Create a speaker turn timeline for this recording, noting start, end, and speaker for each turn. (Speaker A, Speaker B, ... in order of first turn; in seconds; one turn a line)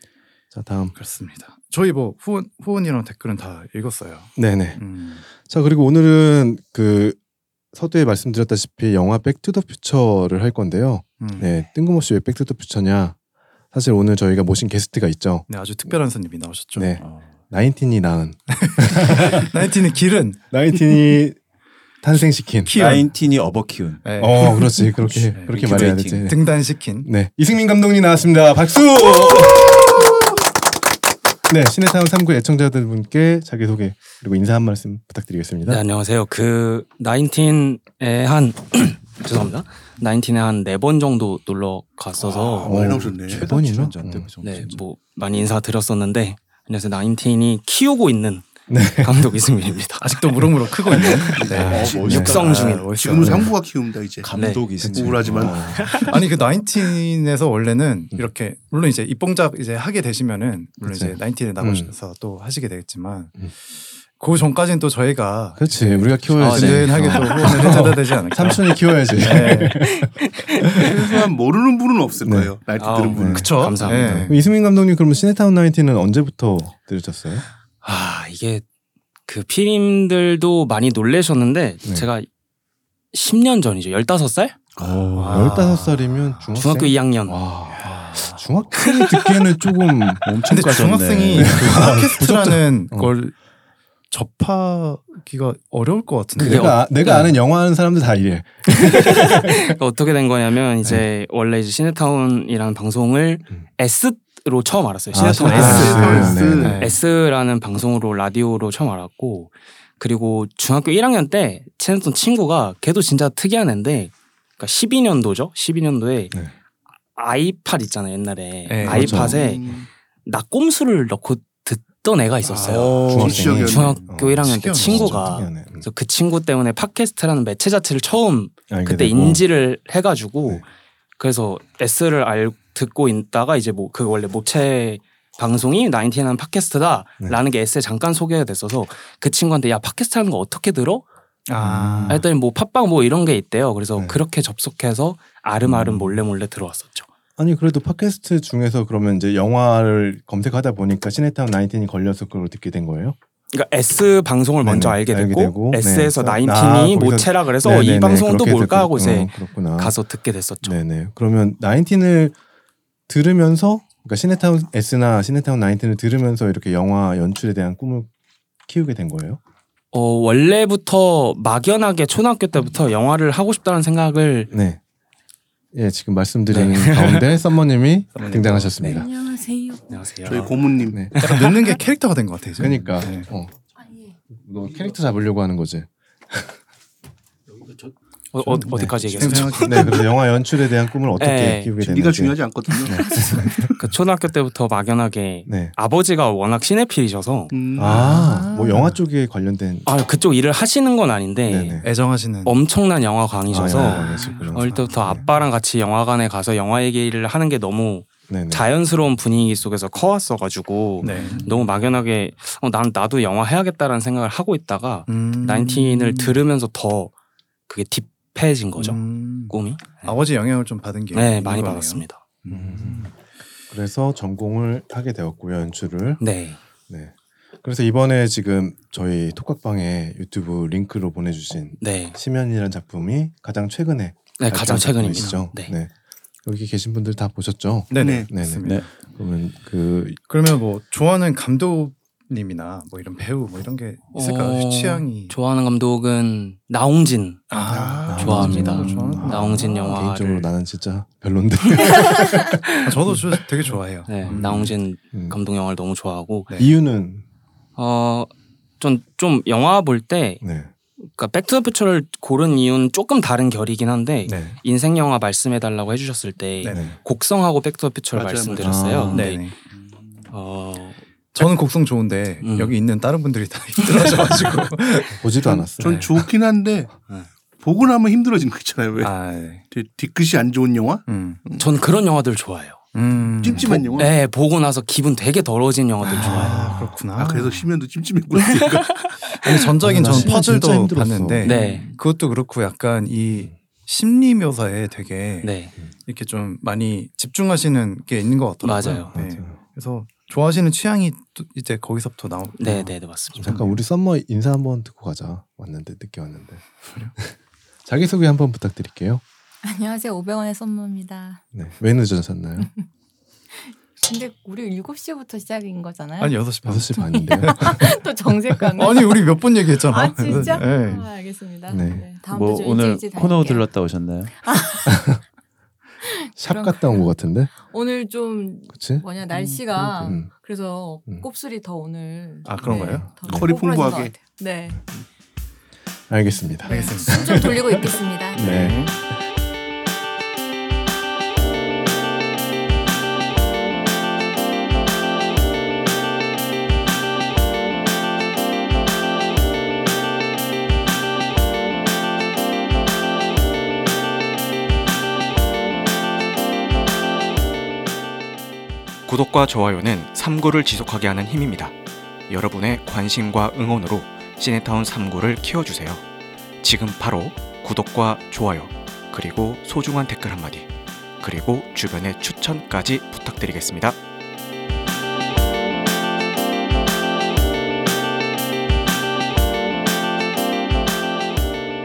Speaker A: 0.5-0.9
Speaker B: 0.9-5.2
Speaker A: 4.4-7.2
Speaker A: 7.7-13.2
Speaker B: 11.2-11.5
Speaker A: 13.7-15.9
Speaker B: 15.5-17.0
Speaker A: 16.8-19.5
Speaker C: 17.0-17.4
Speaker B: 18.6-20.4
Speaker A: 20.5-21.4
Speaker A: 22.0-22.7
Speaker B: 22.7-23.1
Speaker C: 22.7-24.1
Speaker B: 24.0-27.1
Speaker A: 24.2-26.4
Speaker C: 25.1-26.3
Speaker A: 27.0-30.1
Speaker A: 31.5-35.8
Speaker D: 35.7-42.8
Speaker E: 42.2-43.5
Speaker A: 42.6-44.3
Speaker C: 42.9-44.8
Speaker D: 44.4-48.5
Speaker A: 48.7-49.4
Speaker D: 49.0-50.2
Speaker B: 50.0-53.5
Speaker E: 51.3-52.3
Speaker A: 51.5-52.4
Speaker C: 51.7-52.5
Speaker D: 52.1-52.9
Speaker E: 52.9-54.3
Speaker A: 53.2-53.5
Speaker C: 54.2-55.6
Speaker D: 54.4-54.6
Speaker A: 54.8-56.0
Speaker E: 54.9-55.7
Speaker D: 55.7-56.1
Speaker B: 56.1-69.8
Speaker A: 60.8-61.9
Speaker A: 65.6-70.3
Speaker D: 66.4-67.5
Speaker C: 66.5-67.0
Speaker D: 69.8-70.9
Speaker E: 70.8-73.9
Speaker A: 72.2-72.5
Speaker D: 72.8-74.3
Speaker A: 73.1-77.5
Speaker B: 73.3-74.5
Speaker D: 77.8-78.6
Speaker D: 79.3-82.3
Speaker D: 83.1-84.6
Speaker C: 84.8-85.7
Speaker B: 85.1-86.5
Speaker A: 85.3-90.3
Speaker D: 86.6-87.4
Speaker B: 87.8-88.4
Speaker D: 88.8-89.3
Speaker C: 90.2-92.1
Speaker B: 90.5-93.3
Speaker A: 91.3-93.1
Speaker B: 94.1-96.8
Speaker A: 96.4-99.7
Speaker D: 96.4-97.3
Speaker D: 98.7-116.3
Speaker A: 105.1-106.8
Speaker C: 105.2-106.1
Speaker E: 105.5-106.8
Speaker B: 105.5-107.0
Speaker D: 117.2-130.7
Speaker B: 118.7-119.3
Speaker A: 118.8-119.4
Speaker E: 119.1-119.9
Speaker E: 122.5-124.0
Speaker B: 122.6-125.2
Speaker A: 123.1-125.9
Speaker A: 128.7-129.4
Speaker D: 131.2-141.1
Speaker B: 141.5-142.2
Speaker A: 141.6-142.3
Speaker D: 142.1-147.1
Speaker A: 144.0-144.2
Speaker A: 145.7-146.2
Speaker A: 147.4-153.2
Speaker D: 153.5-160.8
Speaker A: 154.6-160.0
Speaker A: 160.6-162.4
Speaker A: 163.1-168.1
Speaker A: 168.7-169.4
Speaker D: 169.9-174.5
Speaker A: 174.5-174.8
Speaker A: 175.7-179.1
Speaker D: 176.5-177.2
Speaker B: 178.2-178.8
Speaker F: 178.9-180.0
Speaker D: 179.9-180.6
Speaker E: 180.2-181.1
Speaker D: 181.2-181.6
Speaker B: 181.2-183.3
Speaker A: 182.6-183.5
Speaker F: 183.8-184.1
Speaker A: 184.3-186.6
Speaker D: 188.3-190.1
Speaker A: 188.4-193.7
Speaker B: 189.2-190.0
Speaker D: 191.2-191.7
Speaker E: 191.8-193.1
Speaker D: 193.4-197.5
Speaker A: 195.5-195.8
Speaker E: 197.5-198.3
Speaker A: 197.8-199.9
Speaker B: 197.8-199.0
Speaker D: 199.9-201.8
Speaker A: 201.4-201.9
Speaker B: 201.8-202.6
Speaker D: 202.4-217.1
Speaker A: 203.5-205.2
Speaker B: 203.8-205.0
Speaker A: 208.3-208.7
Speaker A: 211.0-211.3
Speaker B: 211.0-211.7
Speaker B: 215.1-216.4
Speaker D: 217.7-220.2
Speaker B: 218.8-223.1
Speaker D: 221.1-222.2
Speaker A: 222.5-223.1
Speaker A: 223.7-226.2
Speaker D: 226.2-226.6
Speaker A: 226.9-235.9
Speaker D: 231.8-232.2
Speaker D: 234.4-235.7
Speaker B: 235.2-235.4
Speaker A: 236.4-240.2
Speaker B: 237.9-238.8
Speaker E: 238.0-238.3
Speaker C: 238.6-238.9
Speaker B: 240.3-245.3
Speaker D: 244.1-247.5
Speaker B: 247.5-249.8
Speaker E: 247.7-248.1
Speaker A: 248.1-253.4
Speaker D: 248.2-250.5
Speaker B: 252.8-254.7
Speaker D: 254.1-256.5
Speaker A: 254.2-255.4
Speaker A: 256.6-257.2
Speaker D: 257.8-260.4
Speaker A: 260.4-260.7
Speaker D: 261.0-269.5
Speaker A: 264.3-264.6
Speaker B: 266.6-266.9
Speaker A: 266.7-267.0
Speaker E: 268.1-268.8
Speaker A: 268.6-269.3
Speaker B: 269.1-269.6
Speaker D: 270.3-271.0
Speaker B: 271.3-276.3
Speaker D: 272.4-272.7
Speaker A: 275.1-276.0
Speaker E: 275.8-276.9
Speaker E: 277.6-279.1
Speaker B: 279.0-279.6
Speaker E: 279.7-281.6
Speaker B: 281.1-281.4
Speaker D: 281.6-282.8
Speaker B: 282.9-284.0
Speaker E: 283.4-284.1
Speaker A: 283.5-283.8
Speaker D: 283.9-286.6
Speaker B: 286.0-287.7
Speaker A: 286.2-287.0
Speaker E: 287.1-289.1
Speaker D: 288.6-289.6
Speaker B: 289.4-295.5
Speaker A: 289.8-291.6
Speaker D: 291.4-291.9
Speaker D: 295.4-295.7
Speaker B: 296.1-303.8
Speaker D: 298.6-299.1
Speaker A: 299.1-299.6
Speaker D: 302.6-303.5
Speaker A: 303.4-306.6
Speaker B: 306.9-307.1
Speaker A: 307.9-309.2
Speaker F: 309.6-311.4
Speaker A: 311.5-312.7
Speaker F: 313.5-323.8
Speaker B: 316.2-317.9
Speaker A: 316.6-318.0
Speaker B: 318.8-321.1
Speaker A: 320.3-320.6
Speaker A: 321.7-322.1
Speaker C: 322.3-324.4
Speaker F: 324.4-325.1
Speaker A: 324.9-325.2
Speaker F: 326.0-334.8
Speaker A: 326.4-327.5
Speaker A: 328.7-329.1
Speaker B: 329.4-329.9
Speaker A: 329.8-330.3
Speaker B: 332.5-333.1
Speaker A: 332.6-333.6
Speaker E: 333.2-334.2
Speaker A: 336.1-339.0
Speaker F: 336.6-338.7
Speaker B: 336.7-337.5
Speaker B: 338.4-338.9
Speaker G: 359.1-361.8
Speaker G: 362.3-366.0
Speaker G: 366.6-370.7
Speaker G: 371.2-374.0